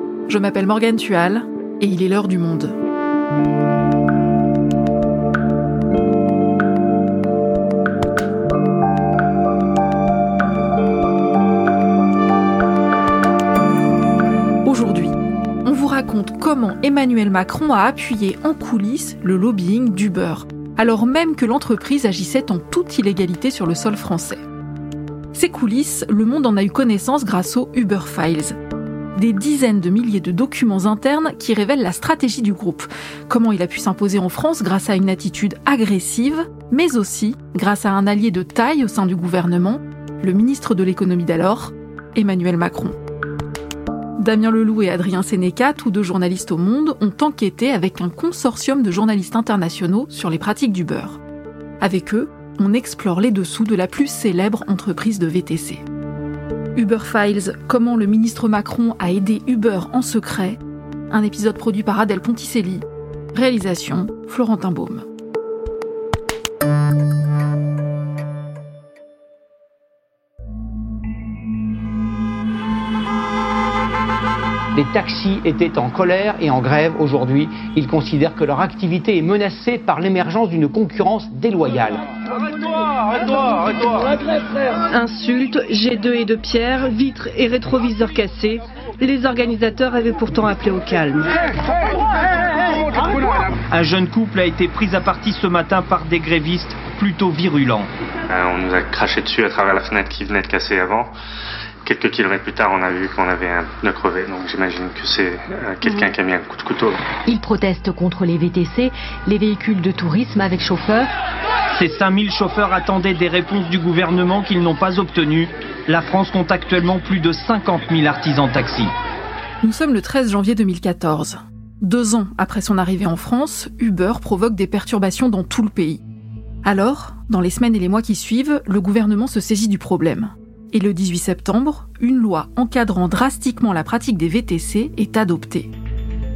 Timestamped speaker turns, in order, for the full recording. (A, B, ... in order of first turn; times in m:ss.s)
0:00.3-0:02.7 A
0:14.6-0:24.4 A
0:25.3-0:28.6 A
0:29.2-0:43.0 A
0:44.2-0:51.2 A
0:51.8-0:55.8 A
0:56.8-1:05.0 A
1:14.7-1:22.0 B
1:24.9-1:31.3 C
1:33.7-1:37.9 D
1:38.3-1:41.1 E
1:41.8-1:47.1 E
1:47.2-1:51.1 F
1:51.7-1:58.9 D
1:59.6-2:06.0 A
2:06.6-2:15.7 A